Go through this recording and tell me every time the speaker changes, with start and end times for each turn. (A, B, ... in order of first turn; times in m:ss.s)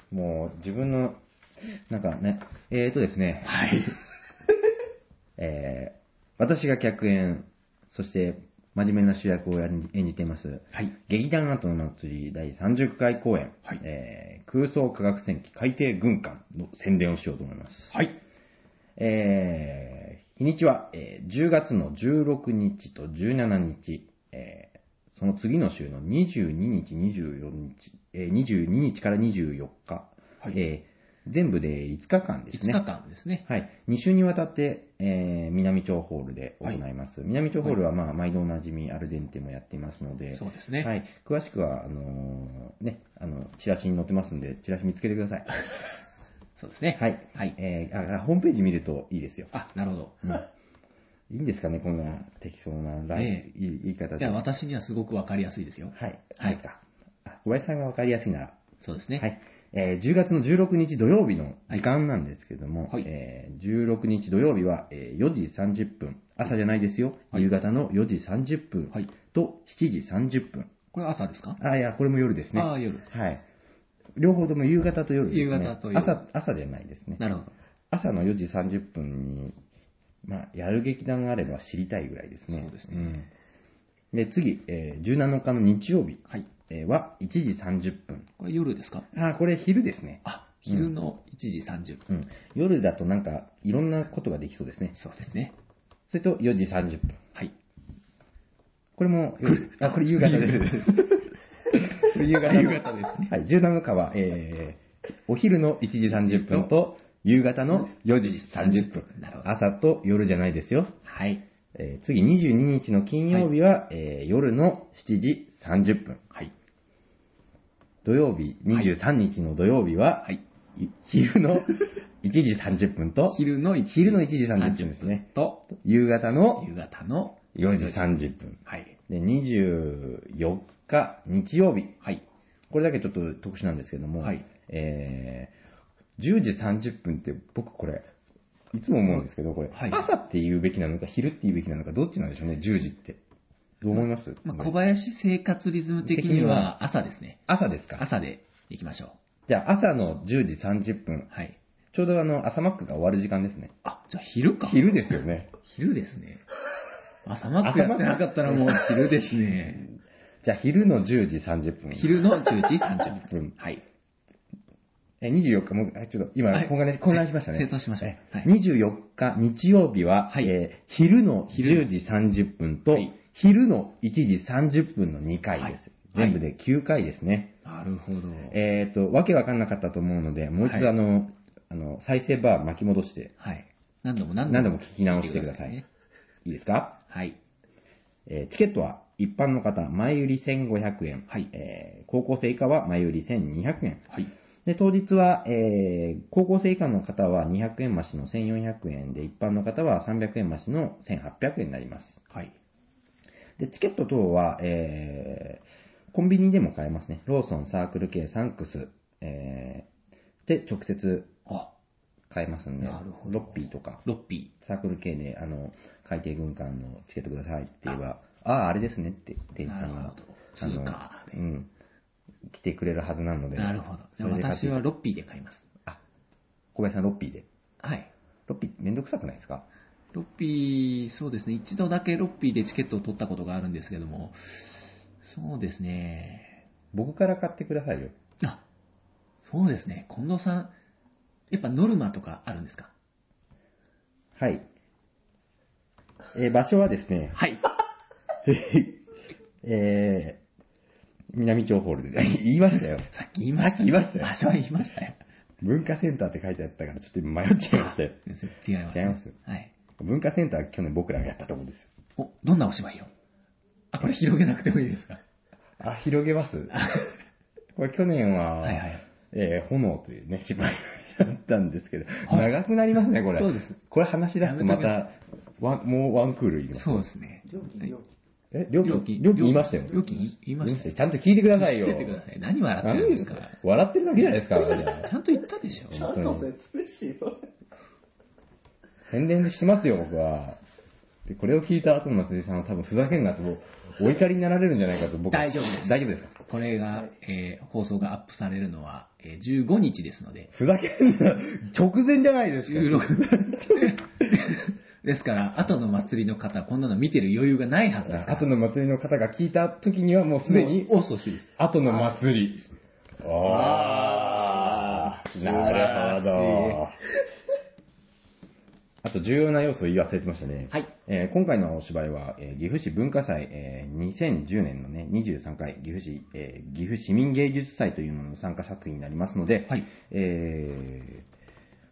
0:00.1-0:03.7 A
0:03.4-0:04.0 B
0:05.4-0:18.0 A
0:17.9-0:18.2 B
0:19.0-0:32.8 A
0:32.5-0:33.5 B
0:33.5-0:45.6 A
0:40.3-0:40.9 B
0:46.6-0:47.6 B
0:47.0-0:49.5 A
0:49.5-0:50.4 B
0:51.3-0:54.4 A
0:53.2-0:53.5 B
0:54.2-0:56.6 B
0:56.0-0:58.6 A
0:58.8-0:59.3 B
0:59.2-1:10.7 A
1:10.9-1:11.6 B
1:11.6-1:13.4 A
1:12.5-1:13.1 B
1:14.2-1:17.2 A
1:15.3-1:16.2 B
1:17.2-1:17.6 B
1:17.9-1:19.6 A
1:20.2-1:23.3 A
1:22.5-1:23.2 B
1:24.1-1:28.3 A
1:28.4-1:29.1 B
1:29.1-1:30.9 A
1:30.2-1:32.0 B
1:32.1-1:35.0 A
1:35.0-1:35.5 B
1:36.1-1:37.2 A
1:39.0-1:51.0 A
1:39.4-1:43.3 B
1:46.1-1:46.7 B
1:48.5-1:49.5 B
1:51.0-1:51.4 B
1:51.8-1:56.2 A
1:58.0-2:06.7 A
2:03.3-2:05.7 B
2:06.6-2:09.0 B
2:07.6-2:12.0 A
2:12.7-2:15.5 A
2:14.2-2:14.5 B
2:16.2-2:18.1 A
2:18.7-2:23.2 A
2:19.7-2:20.1 B
2:23.8-2:24.7 A
2:24.0-2:27.4 B
2:26.0-2:26.8 A
2:27.5-2:28.1 A
2:28.0-2:29.2 B
2:29.5-2:31.3 A
2:31.3-2:31.6 B
2:31.9-2:33.7 A
2:33.8-2:34.9 B
2:34.6-2:35.5 A
2:35.6-2:36.4 B
2:37.2-2:39.9 B
2:37.6-2:39.1 A
2:40.4-2:43.6 A
2:41.9-2:43.8 B
2:45.2-2:57.6 A
2:46.5-2:48.5 B
2:50.3-2:50.5 B
2:51.5-2:51.9 B
2:52.9-2:53.2 B
2:55.6-2:56.4 B
2:57.6-2:58.6 B
2:58.5-3:03.3 A
3:00.6-3:00.9 B
3:03.4-3:05.9 B
3:04.5-3:05.8 A
3:06.4-3:07.0 A
3:07.1-3:07.4 B
3:08.3-3:14.1 A
3:14.6-3:22.2 A
3:23.6-3:29.9 A
3:30.5-3:31.3 A
3:32.3-3:34.0 A
3:32.8-3:34.5 B
3:34.6-3:41.7 A
3:39.6-3:41.4 B
3:42.5-3:44.8 A
3:43.6-3:45.6 B
3:46.8-3:47.5 A
3:47.8-3:48.1 B
3:48.5-3:49.7 A
3:50.1-3:56.6 B
3:56.9-3:58.2 A
3:59.4-4:00.7 B
4:01.5-4:02.9 B
4:04.4-4:04.7 A
4:06.3-4:07.4 A
4:07.4-4:07.7 B
4:08.4-4:09.0 A
4:09.6-4:10.4 A
4:11.3-4:14.3 A
4:13.1-4:15.2 B
4:15.6-4:18.3 A
4:17.7-4:19.7 B
4:18.9-4:19.4 A
4:20.0-4:21.9 A
4:22.2-4:23.1 B
4:23.9-4:25.2 B
4:25.8-4:26.8 A
4:26.7-4:27.1 B
4:27.8-4:37.0 A
4:28.6-4:29.0 B
4:33.3-4:33.8 B
4:34.4-4:35.0 B
4:36.7-4:37.9 B
4:37.5-4:38.1 C
4:38.5-4:40.1 A
4:38.8-4:40.9 B
4:40.6-4:42.2 A
4:41.5-4:43.6 B
4:42.8-4:45.1 A
4:44.3-4:46.2 B
4:45.9-4:46.5 A
4:45.9-4:47.5 C
4:49.1-4:50.6 A
4:51.3-4:56.4 A
4:55.3-5:00.5 B
5:00.5-5:04.0 A
5:02.6-5:08.5 B
5:08.1-5:11.0 A
5:10.5-5:12.2 B
5:11.6-5:17.0 A
5:13.4-5:16.9 B
5:19.0-5:31.3 A